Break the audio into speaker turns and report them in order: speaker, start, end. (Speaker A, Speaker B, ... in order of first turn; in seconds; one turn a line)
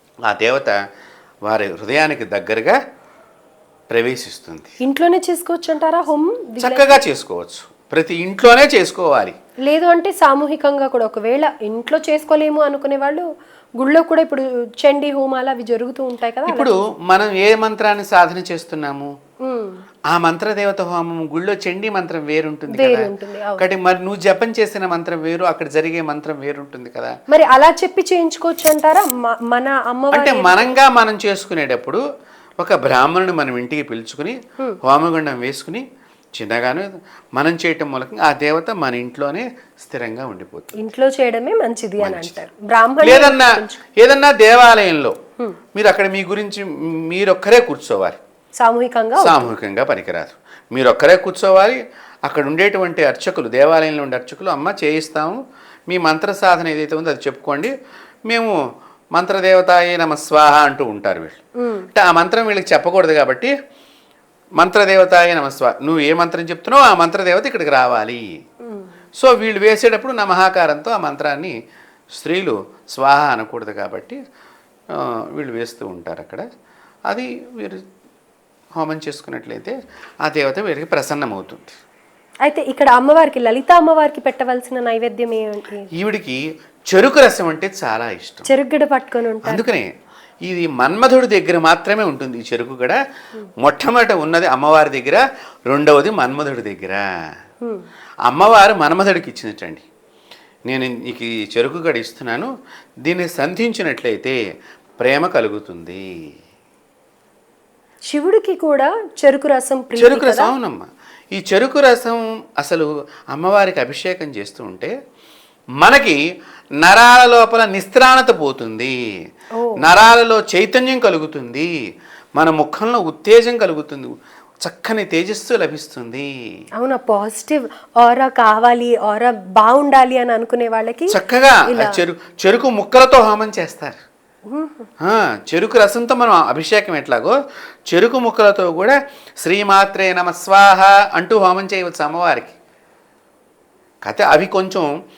Speaker A: 0.3-0.7
Speaker A: 1.5-2.8
Speaker A: 3.9-4.7
Speaker B: 4.8-7.0
Speaker A: 6.6-9.3
Speaker B: 9.7-13.2
Speaker B: 13.8-16.7
Speaker A: 16.5-19.1
Speaker B: 19.4-19.8
Speaker A: 20.1-27.1
Speaker B: 22.7-23.7
Speaker B: 27.3-30.8
Speaker A: 30.1-32.0
Speaker A: 32.6-35.8
Speaker A: 36.4-40.8
Speaker B: 40.8-43.8
Speaker A: 42.0-42.4
Speaker A: 43.0-45.1
Speaker A: 45.7-48.2
Speaker B: 48.6-49.5
Speaker A: 49.2-57.7
Speaker A: 58.3-58.5
Speaker A: 59.1-61.4
Speaker B: 61.6-61.9
Speaker A: 61.9-63.5
Speaker A: 64.6-68.2
Speaker B: 68.6-68.9
Speaker A: 69.2-71.5
Speaker A: 72.1-74.2
Speaker A: 74.9-76.4
Speaker A: 77.1-77.8
Speaker A: 78.8-81.8
Speaker B: 82.4-85.9
Speaker A: 85.9-88.5
Speaker B: 88.5-89.6
Speaker A: 89.4-89.9
Speaker A: 90.5-93.0
Speaker A: 93.6-97.0
Speaker A: 98.3-99.8
Speaker A: 100.7-102.5
Speaker A: 103.0-104.4
Speaker A: 105.0-106.0
Speaker B: 108.1-110.5
Speaker A: 110.0-114.9
Speaker A: 115.8-116.2
Speaker A: 116.8-118.9
Speaker A: 119.8-121.7
Speaker A: 122.4-126.3
Speaker B: 126.8-131.2
Speaker A: 131.1-134.0
Speaker B: 131.7-132.0
Speaker B: 134.5-134.9
Speaker A: 135.0-137.4
Speaker A: 137.9-142.6
Speaker A: 144.0-144.9